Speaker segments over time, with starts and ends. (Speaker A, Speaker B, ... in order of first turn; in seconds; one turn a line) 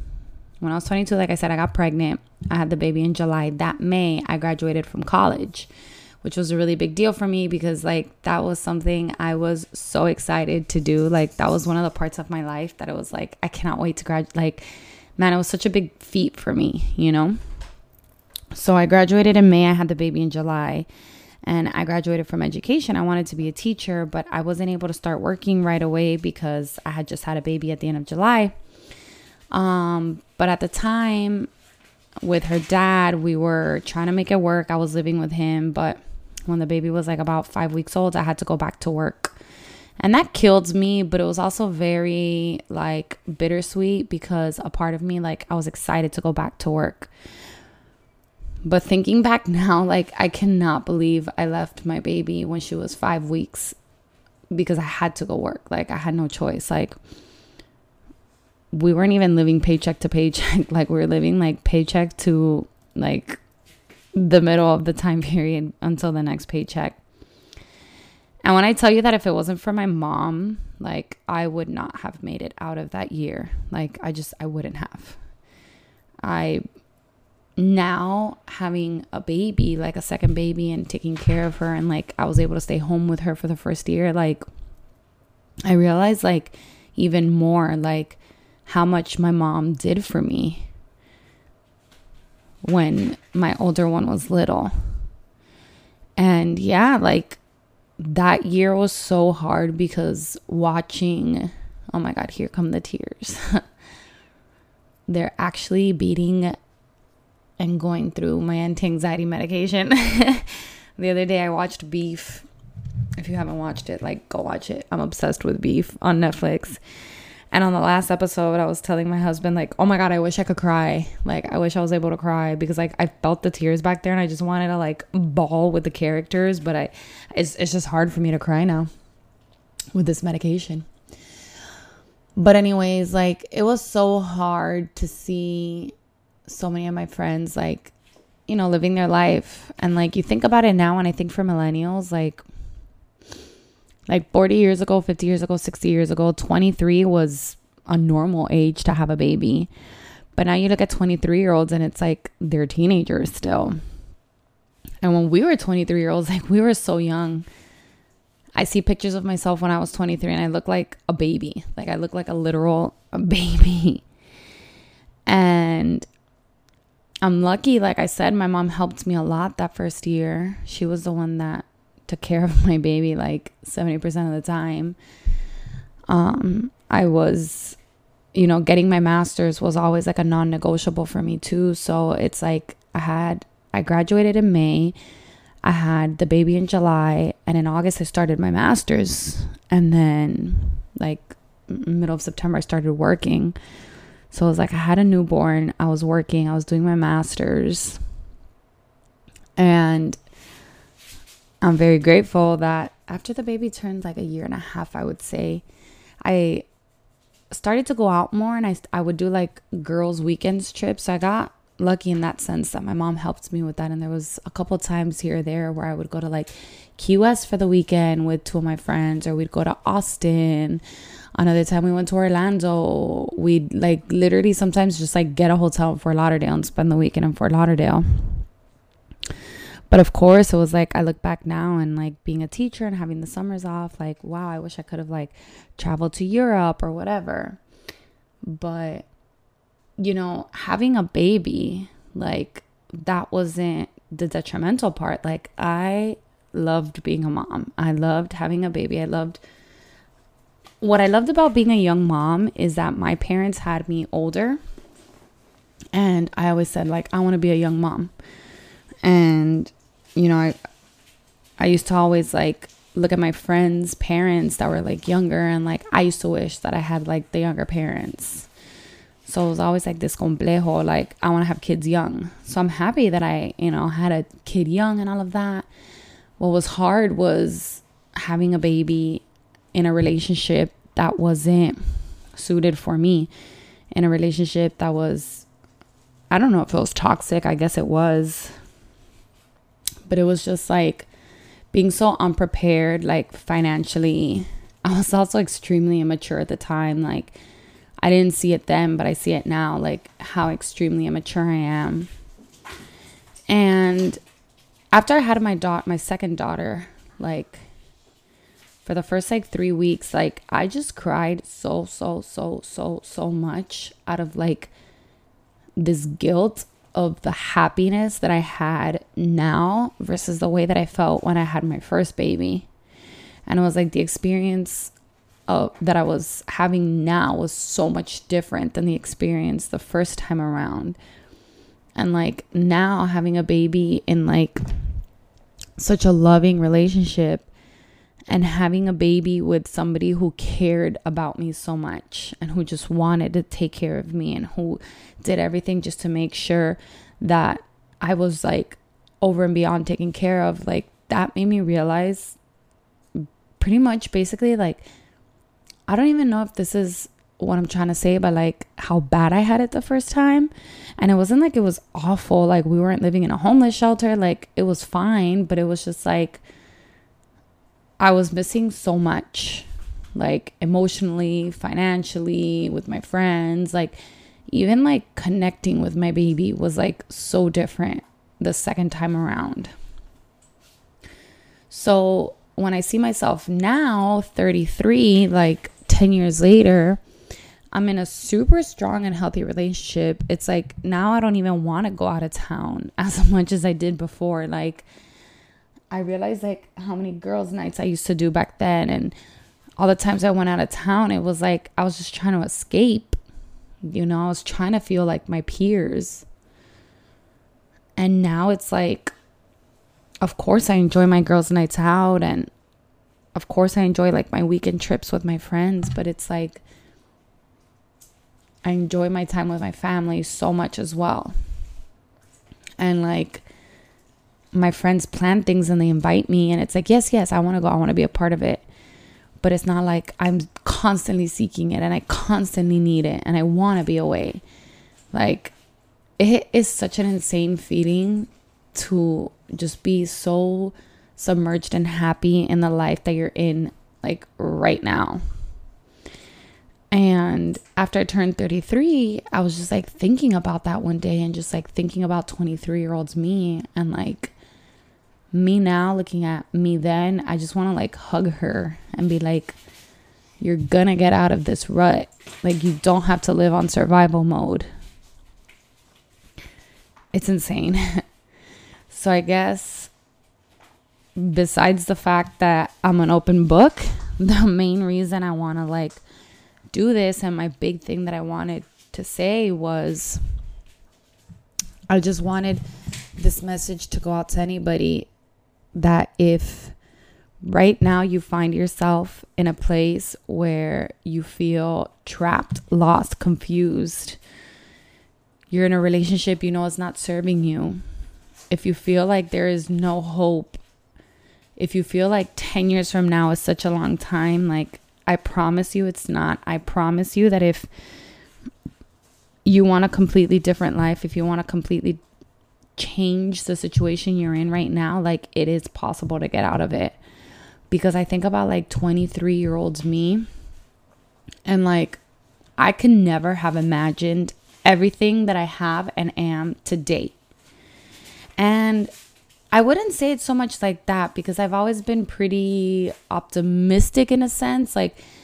Speaker A: 0.6-5.7
Speaker A: 6.2-17.4
Speaker A: 18.5-20.9
Speaker A: 21.4-28.5
Speaker A: 29.5-31.5
Speaker A: 32.2-39.4
Speaker A: 40.0-47.1
Speaker A: 48.6-53.8
Speaker A: 54.5-57.0
Speaker A: 58.7-63.4
Speaker A: 64.1-67.0
Speaker A: 68.4-75.2
Speaker A: 76.2-76.6
Speaker A: 77.6-84.4
Speaker A: 85.7-90.7
Speaker A: 92.6-94.7
Speaker A: 96.2-97.4
Speaker A: 98.0-103.6
Speaker A: 105.1-106.5
Speaker A: 107.6-112.5
Speaker A: 113.2-116.8
Speaker A: 117.5-128.9
Speaker A: 129.9-130.9
Speaker A: 132.4-135.9
Speaker A: 136.4-137.9
Speaker A: 138.5-142.4
Speaker A: 144.1-149.7
Speaker A: 150.3-153.8
Speaker A: 155.0-157.5
Speaker A: 158.5-164.0
Speaker A: 165.2-166.1
Speaker A: 167.2-175.0
Speaker A: 176.1-177.8
Speaker A: 178.3-184.9
Speaker A: 185.6-193.6
Speaker A: 194.3-198.0
Speaker A: 199.6-200.2
Speaker A: 201.6-205.6
Speaker A: 206.2-206.7
Speaker A: 207.5-220.8
Speaker A: 221.3-228.0
Speaker A: 229.9-237.6
Speaker A: 238.4-239.1
Speaker A: 240.0-249.4
Speaker A: 250.8-254.6
Speaker A: 255.9-258.1
Speaker A: 259.0-260.6
Speaker A: 261.6-268.5
Speaker A: 269.2-275.7
Speaker A: 276.4-283.3
Speaker A: 283.9-285.5
Speaker A: 286.3-288.5
Speaker A: 290.1-291.1
Speaker A: 291.7-297.4
Speaker A: 298.0-302.1
Speaker A: 303.5-304.2
Speaker A: 304.9-307.6
Speaker A: 308.8-314.7
Speaker A: 315.8-322.7
Speaker A: 323.5-324.9
Speaker A: 325.5-331.0
Speaker A: 331.9-334.6
Speaker A: 335.8-337.5
Speaker A: 338.3-352.4
Speaker A: 353.1-354.8
Speaker A: 355.9-366.4
Speaker A: 368.0-379.7
Speaker A: 381.7-387.0
Speaker A: 387.7-394.8
Speaker A: 395.9-399.1
Speaker A: 399.8-403.2
Speaker A: 403.9-406.2
Speaker A: 408.0-409.1
Speaker A: 410.2-412.5
Speaker A: 413.3-416.6
Speaker A: 418.6-421.3
Speaker A: 422.8-423.4
Speaker A: 424.5-428.6
Speaker A: 429.4-434.4
Speaker A: 435.1-435.5
Speaker A: 436.2-445.2
Speaker A: 446.9-454.3
Speaker A: 455.3-459.6
Speaker A: 460.4-464.7
Speaker A: 467.1-468.0
Speaker A: 468.9-469.9
Speaker A: 471.1-476.0
Speaker A: 476.7-480.2
Speaker A: 481.9-482.6
Speaker A: 483.2-485.1
Speaker A: 485.7-486.7
Speaker A: 487.4-494.2
Speaker A: 495.5-497.8
Speaker A: 498.5-500.6
Speaker A: 501.6-507.7
Speaker A: 509.4-512.0
Speaker A: 512.8-517.0
Speaker A: 517.7-520.3
Speaker A: 521.5-522.0
Speaker A: 522.6-527.1
Speaker A: 528.4-528.9
Speaker A: 529.5-535.0